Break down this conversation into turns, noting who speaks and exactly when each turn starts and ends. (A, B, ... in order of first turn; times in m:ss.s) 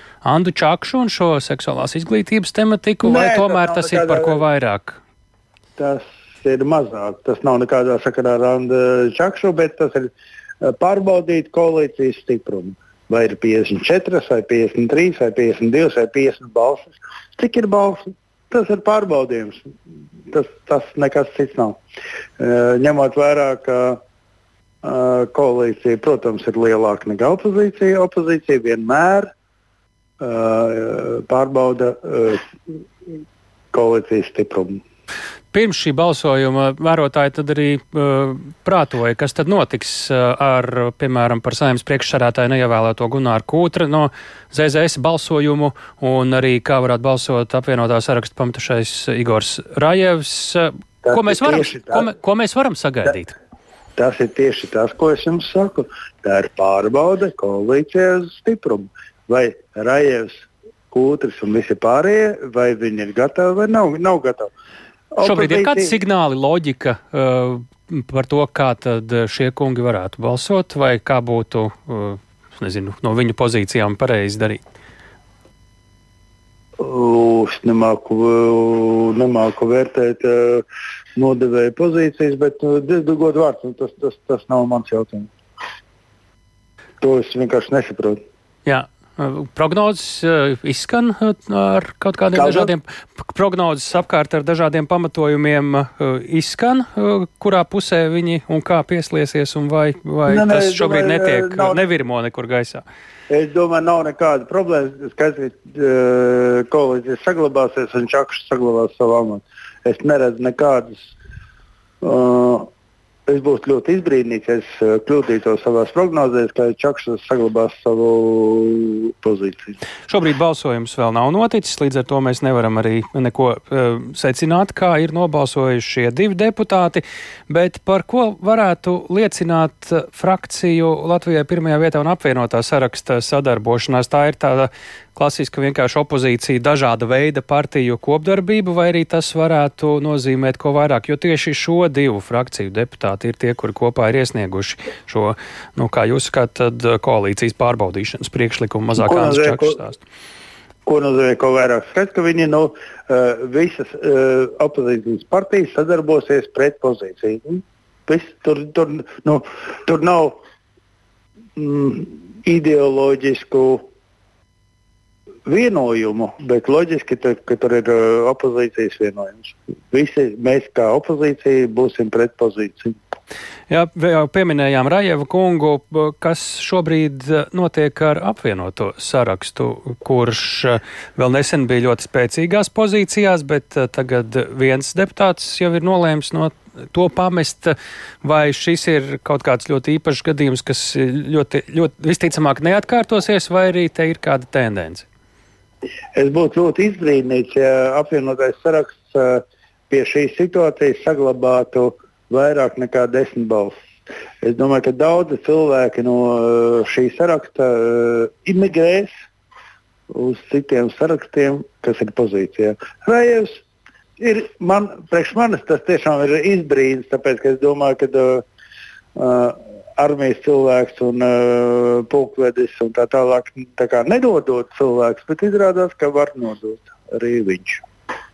0:00.2-0:05.0 A
0:03.0-0:04.4 B
0:05.8-0:19.7 B
0:20.3-0:21.8 B
0:22.4-0:24.0 B
0:24.8-0:29.3 B
0:30.2-0:32.4 B
0:33.7-0:34.8 B
0:35.5-0:53.4 A
0:51.0-0:52.1 B
0:54.0-1:04.5 B
1:05.1-1:06.0 B
1:05.2-1:14.6 A
1:16.8-1:20.6 B
1:21.2-1:25.3 B
1:27.0-1:28.2 B
1:28.7-1:42.8 A
1:32.4-1:32.7 B
1:40.3-1:41.8 B
1:43.3-1:51.1 B
1:52.0-1:52.7 B
1:53.3-1:59.8 B
2:00.1-2:30.0 A
2:29.0-2:29.8 B
2:30.9-2:40.4 B
2:41.6-2:43.9 B
2:45.5-2:53.0 B
2:53.7-3:15.1 A
3:16.2-3:23.8 B
3:24.4-3:29.1 B
3:30.1-3:33.6 B
3:34.2-3:38.4 B
3:39.2-3:47.8 B